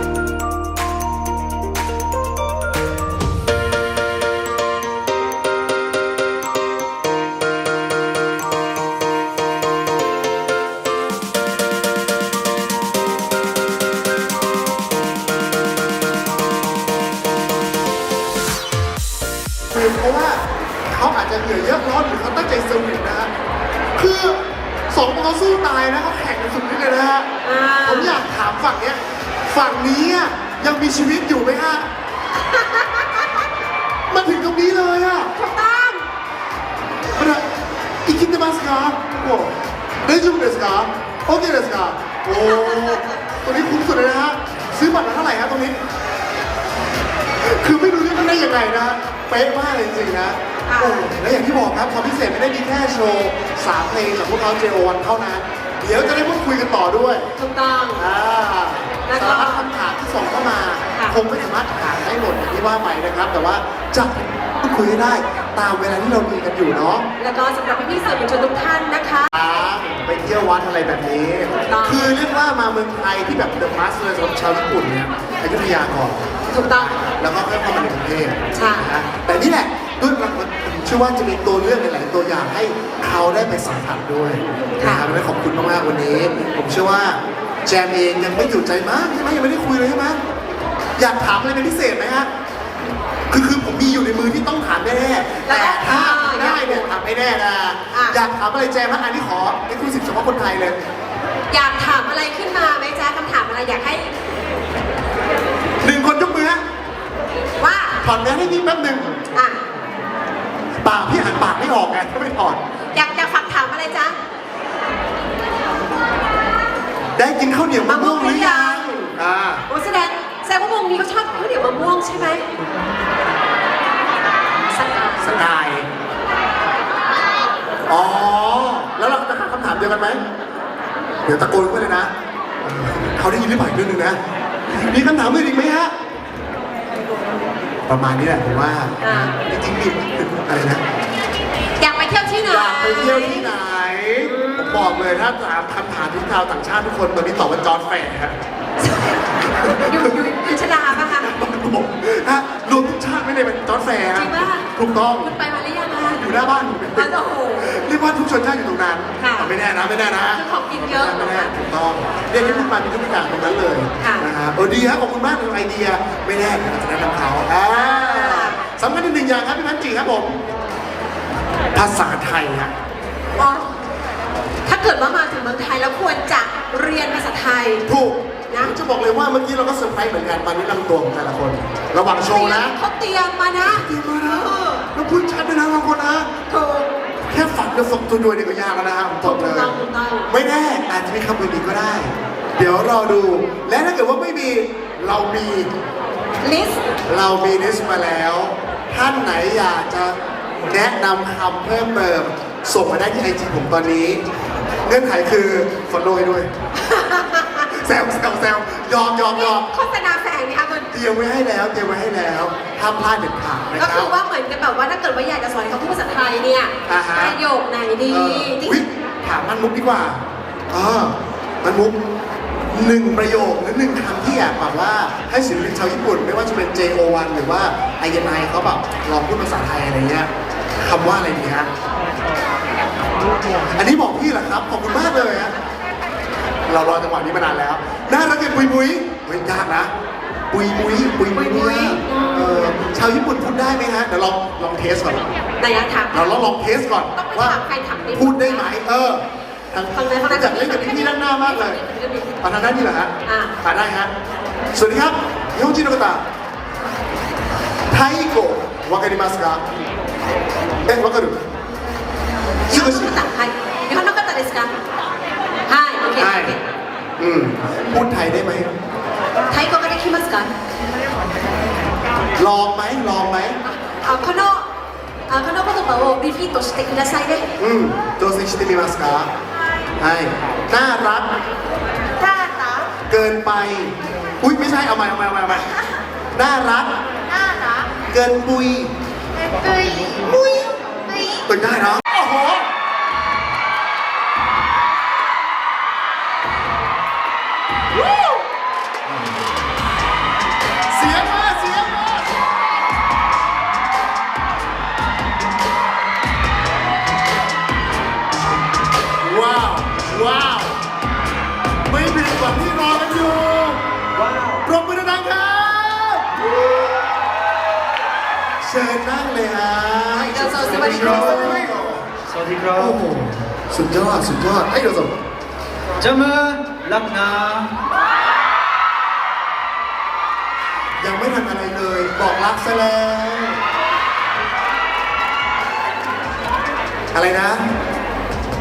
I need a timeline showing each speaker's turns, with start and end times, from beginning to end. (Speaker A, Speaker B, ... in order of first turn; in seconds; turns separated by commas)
Speaker A: 19.7-23.3, Speaker A: 23.9-27.3, Speaker B: 27.4-28.2, Speaker A: 27.8-31.9, Speaker B: 32.4-33.3, Speaker A: 34.1-35.3, Speaker B: 35.3-36.1, Speaker A: 37.1-37.4, Speaker A: 38.0-45.8, Speaker B: 42.4-43.0, Speaker A: 47.4-57.3, Speaker B: 50.7-51.1, Speaker B: 57.4-58.0, Speaker A: 57.9-67.0, Speaker B: 59.1-59.7, Speaker B: 67.2-69.3, Speaker A: 69.3-76.2, Speaker B: 71.7-72.1, Speaker B: 76.5-77.0, Speaker A: 76.7-90.2, Speaker B: 78.5-78.9, Speaker B: 84.8-85.0, Speaker A: 91.0-92.3, Speaker A: 93.3-100.8, Speaker B: 95.5-96.9, Speaker B: 97.9-98.2, Speaker B: 101.5-104.1, Speaker A: 105.8-106.6, Speaker B: 107.6-108.0, Speaker A: 108.0-109.2, Speaker B: 109.3-109.6, Speaker A: 110.8-112.6, Speaker B: 112.9-114.2, Speaker A: 117.2-119.6, Speaker B: 117.8-119.1, Speaker B: 119.7-122.4, Speaker B: 124.6-125.4, Speaker A: 125.2-125.9, Speaker A: 127.9-130.2, Speaker A: 131.2-132.1, Speaker A: 132.6-134.2, Speaker A: 134.7-135.9, Speaker A: 137.9-140.8, Speaker B: 139.0-139.3, Speaker B: 141.8-143.5, Speaker A: 142.4-148.4, Speaker B: 144.2-145.1, Speaker B: 148.8-151.3, Speaker A: 149.5-150.3, Speaker A: 150.8-155.3, Speaker B: 154.1-154.7, Speaker B: 155.2-156.2, Speaker A: 156.0-170.4, Speaker B: 156.9-157.9, Speaker B: 159.2-159.5, Speaker B: 160.3-161.5, Speaker B: 162.4-162.7, Speaker B: 164.0-164.3, Speaker B: 167.8-168.6, Speaker A: 171.7-172.7, Speaker B: 173.4-173.7, Speaker B: 174.7-177.8, Speaker A: 177.8-182.8, Speaker B: 178.5-178.8, Speaker B: 182.3-184.8, Speaker A: 183.6-186.3, Speaker B: 186.5-186.9, Speaker A: 187.3-189.7, Speaker B: 189.2-190.3, Speaker A: 190.3-195.7, Speaker B: 196.4-196.8, Speaker A: 197.1-204.2, Speaker A: 204.8-206.5, Speaker B: 206.8-207.7, Speaker A: 207.7-209.7, Speaker B: 209.3-210.9, Speaker A: 210.9-214.1, Speaker B: 213.8-218.8, Speaker A: 216.8-217.4, Speaker A: 218.1-222.1, Speaker A: 222.7-231.7, Speaker A: 233.7-235.5, Speaker A: 236.7-239.9, Speaker A: 240.5-245.3, Speaker B: 241.3-242.7, Speaker B: 245.6-246.4, Speaker A: 246.1-251.8, Speaker B: 247.1-248.7, Speaker B: 249.9-252.4, Speaker A: 252.4-254.1, Speaker B: 253.2-253.5, Speaker A: 254.7-256.2, Speaker A: 257.9-259.6, Speaker A: 260.8-261.4, Speaker B: 262.7-264.7, Speaker A: 262.7-263.1, Speaker B: 265.7-266.6, Speaker A: 266.1-266.6, Speaker A: 267.2-268.7, Speaker B: 269.5-270.5, Speaker A: 272.4-273.6, Speaker B: 273.6-274.7, Speaker B: 275.3-277.4, Speaker A: 277.6-279.3, Speaker A: 280.0-281.4, Speaker B: 282.2-282.8, Speaker A: 283.1-285.7, Speaker A: 286.3-286.9, Speaker A: 288.1-288.9, Speaker C: 290.1-290.7, Speaker A: 291.4-292.7, Speaker A: 300.9-302.3, Speaker A: 309.2-310.8, Speaker A: 311.9-313.9, Speaker C: 314.1-314.6, Speaker A: 314.6-317.2, Speaker A: 318.6-322.1, Speaker B: 320.1-321.7, Speaker C: 320.6-323.0, Speaker A: 322.7-325.1, Speaker C: 326.0-327.7, Speaker A: 331.0-333.6, Speaker A: 337.1-337.7